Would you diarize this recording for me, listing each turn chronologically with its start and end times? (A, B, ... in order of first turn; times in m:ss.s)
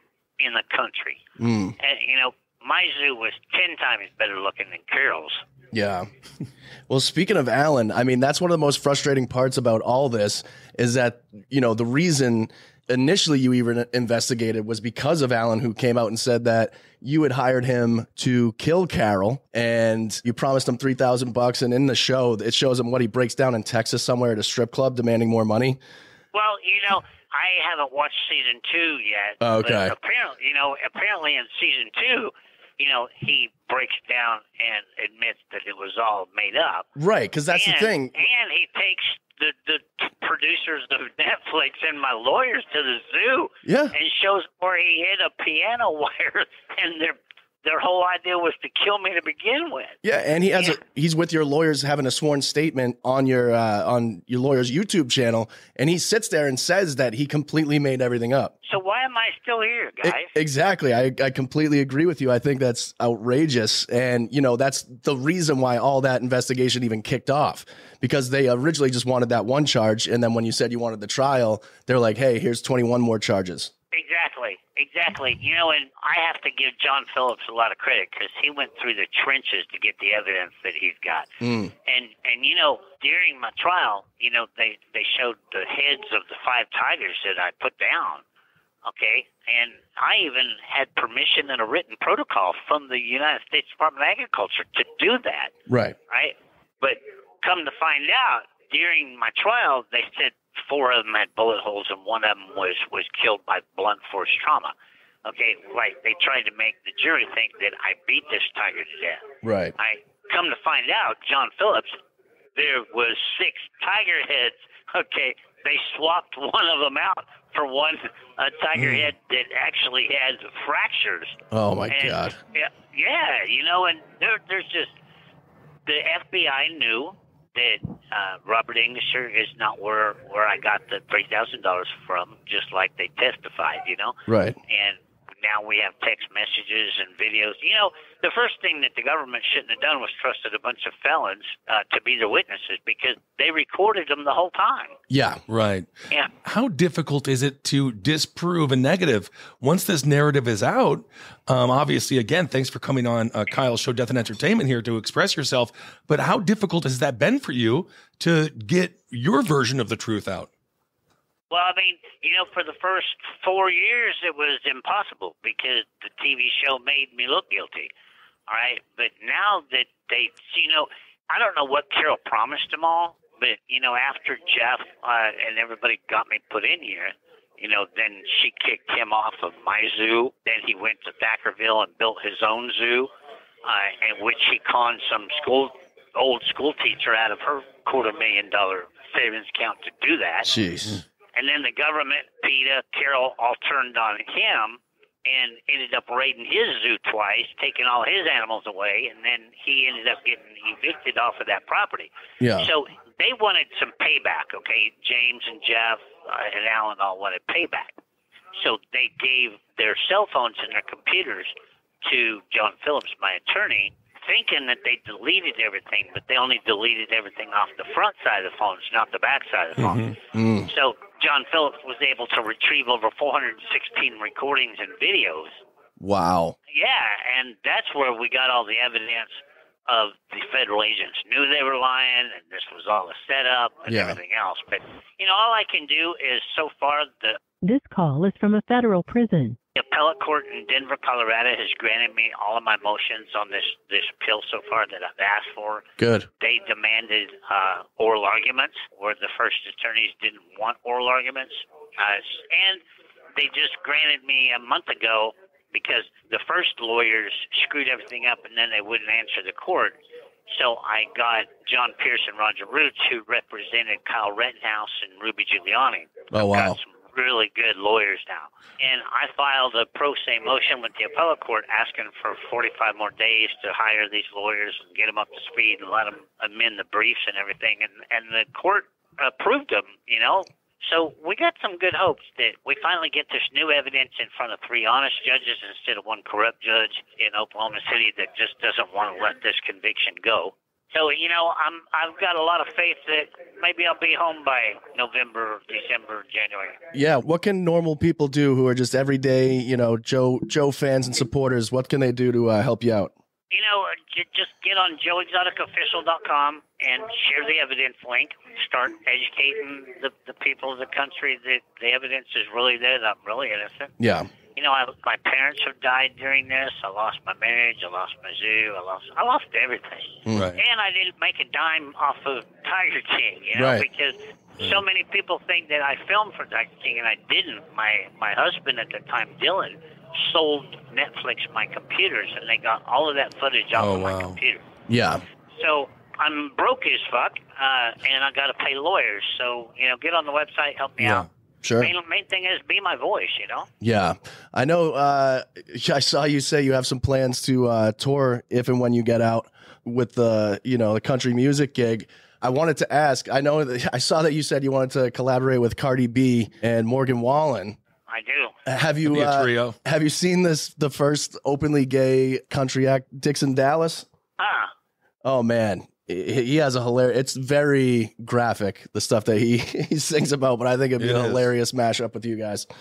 0:00.4-0:01.2 A
0:01.4-0:01.8 B
0:01.8-0:05.4 A
0:05.7-0:06.1 B
0:06.9-0:25.8 B
0:26.3-0:36.9 A
0:29.4-0:29.9 B
0:37.0-0:38.2 B
0:37.5-0:50.0 A
0:43.6-0:44.0 B
0:50.0-0:58.5 B
0:58.7-1:00.3 A
1:00.0-1:13.7 B
1:13.9-1:21.3 A
1:21.4-1:21.7 B
1:21.9-1:28.2 A
1:28.8-1:35.5 A
1:35.7-1:36.0 B
1:36.1-1:44.7 A
1:45.2-1:49.2 A
1:49.4-1:49.8 B
1:49.8-1:52.0 A
1:52.6-2:01.4 A
2:01.5-2:02.4 B
2:01.9-2:04.9 A
2:05.9-2:14.2 A
2:14.3-2:14.6 B
2:14.7-2:25.0 A
2:25.1-2:25.4 B
2:25.5-2:25.9 C
2:26.4-2:40.5 C
2:41.5-2:47.9 A
2:48.5-3:03.1 A
3:03.7-3:10.5 A
3:10.4-3:11.0 B
3:11.4-3:27.9 A
3:22.4-3:22.7 B
3:28.6-3:31.5 A
3:32.0-3:40.0 A
3:39.8-3:40.2 C
3:40.3-3:40.7 B
3:40.7-3:45.6 A
3:46.0-3:46.6 B
3:46.7-3:57.4 A
3:53.9-3:54.2 B
3:57.6-3:59.6 D
3:59.8-4:05.8 A
4:06.0-4:06.3 B
4:06.4-4:12.8 A
4:13.4-4:20.0 A
4:20.5-4:56.8 A
4:26.3-4:26.8 B
4:56.9-5:03.1 B
5:03.5-5:13.9 A
5:14.0-5:14.3 B
5:14.6-5:34.6 A
5:20.3-5:20.5 B
5:20.3-5:20.6 C
5:23.6-5:23.9 B
5:33.8-5:34.4 C
5:34.9-5:35.2 B
5:35.6-5:41.3 A
5:41.0-5:41.9 B
5:41.8-5:43.7 A
5:43.8-5:57.8 B
5:58.1-5:58.6 A
5:58.7-6:04.1 B
5:59.0-5:59.8 C
6:04.4-6:04.7 A
6:05.2-6:12.7 B
6:11.0-6:11.5 C